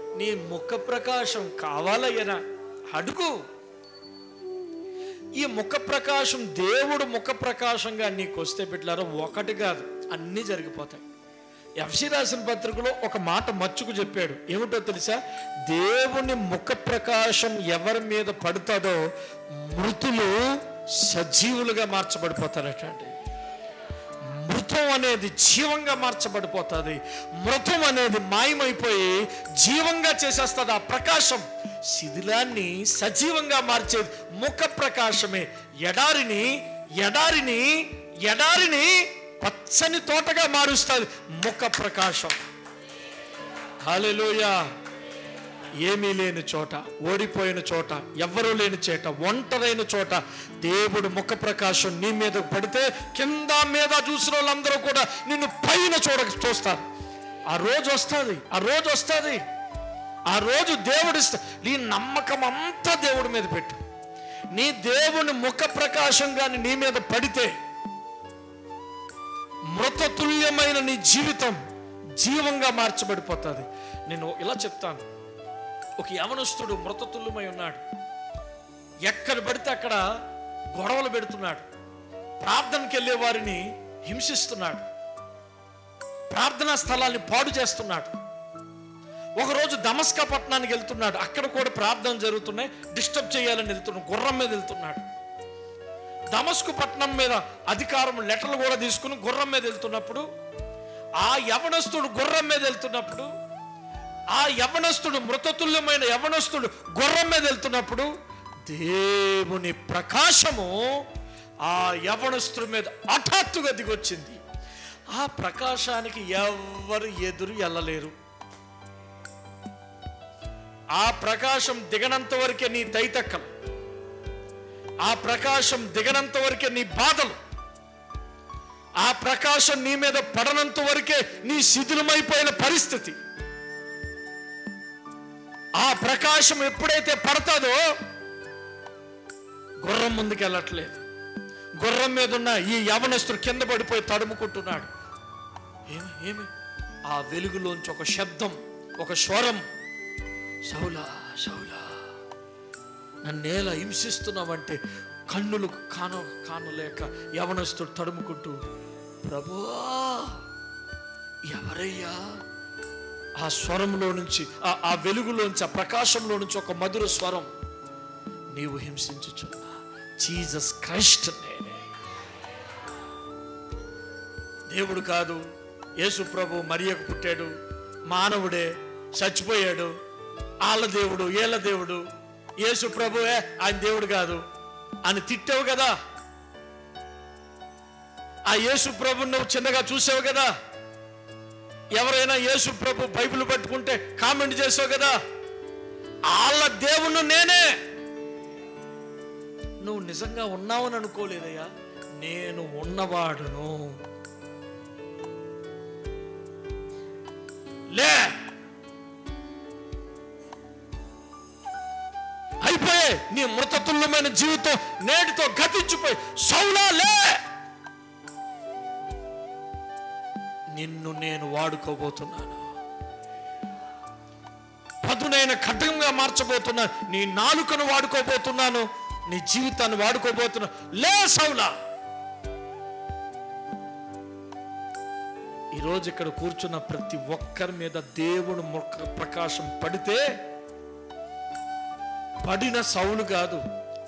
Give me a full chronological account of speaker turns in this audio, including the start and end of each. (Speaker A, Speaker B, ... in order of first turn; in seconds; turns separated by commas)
Speaker A: 0.2-2.4, Speaker A: 2.9-3.3, Speaker A: 5.3-11.0, Speaker A: 11.8-19.0, Speaker A: 19.6-23.1, Speaker A: 24.3-42.4, Speaker A: 43.8-44.6, Speaker A: 45.8-56.8, Speaker A: 57.5-59.4, Speaker A: 60.3-63.8, Speaker A: 64.5-67.5, Speaker A: 69.7-71.6, Speaker A: 72.2-75.0, Speaker A: 76.0-77.8, Speaker A: 79.0-80.0, Speaker A: 80.7-81.7, Speaker A: 82.4-84.8, Speaker A: 86.3-88.1, Speaker A: 89.4-95.0, Speaker A: 96.3-100.2, Speaker A: 101.2-103.3, Speaker A: 104.3-108.1, Speaker A: 108.7-110.8, Speaker A: 111.6-114.4, Speaker A: 115.1-118.1, Speaker A: 121.0-123.5, Speaker A: 125.0-127.3, Speaker A: 129.0-133.2, Speaker A: 135.8-137.8, Speaker A: 139.8-141.0, Speaker A: 141.8-144.9, Speaker A: 145.9-146.5, Speaker A: 147.1-149.6, Speaker A: 150.7-152.0, Speaker A: 153.2-158.6, Speaker A: 159.2-160.4, Speaker A: 161.5-162.2, Speaker A: 163.4-167.5, Speaker A: 168.5-171.8, Speaker A: 174.7-175.4, Speaker A: 176.0-177.5, Speaker A: 178.1-179.9, Speaker A: 180.6-182.0, Speaker A: 182.6-184.4, Speaker A: 185.0-185.9, Speaker A: 188.5-190.5, Speaker A: 191.9-195.2, Speaker A: 196.3-197.7, Speaker A: 199.8-203.9, Speaker A: 207.9-208.3, Speaker A: 212.6-217.4, Speaker A: 220.7-222.6, Speaker A: 225.0-231.7, Speaker A: 235.8-240.2, Speaker A: 242.4-243.6